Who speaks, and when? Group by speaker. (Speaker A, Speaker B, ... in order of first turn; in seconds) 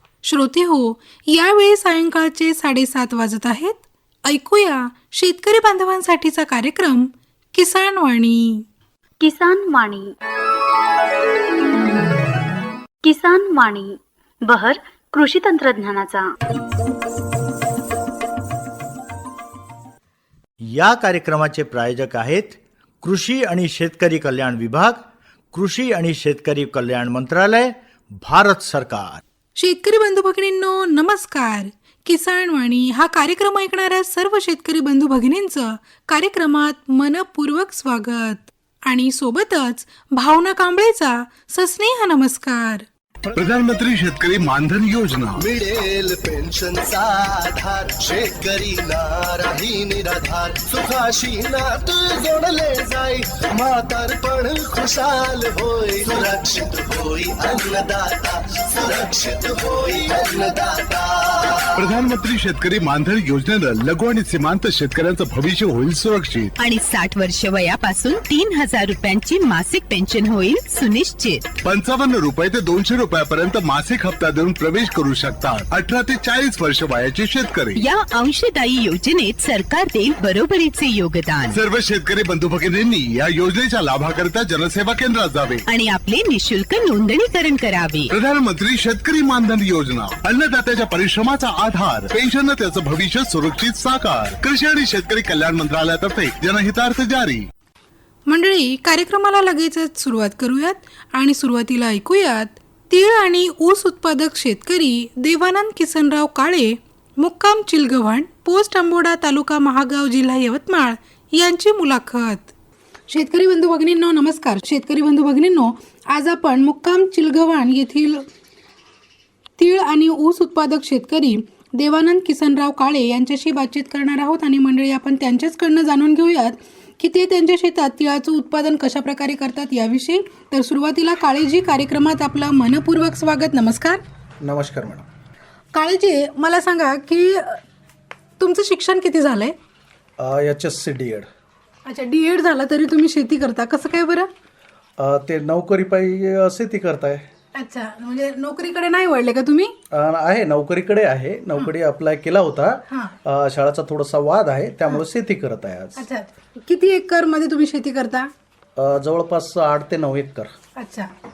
Speaker A: 0.2-8.7, 29.6-42.9, 98.3-112.5, 113.1-118.3, 119.6-134.0, 135.7-137.6, 138.4-139.6, 141.9-144.3, 147.6-149.8, 152.9-153.2, 156.0-158.3, 160.8-161.1
Speaker B: 9.2-10.1, 13.0-16.3
Speaker C: 20.6-29.2
Speaker D: 43.4-45.4, 61.8-66.6, 71.6-77.8, 81.5-85.6, 88.1-97.5
Speaker E: 45.4-61.7
Speaker F: 66.6-71.5, 77.8-81.6, 85.7-88.1
Speaker G: 134.4-135.1, 140.2-141.3, 145.0-147.3, 149.9-156.1, 158.8-160.5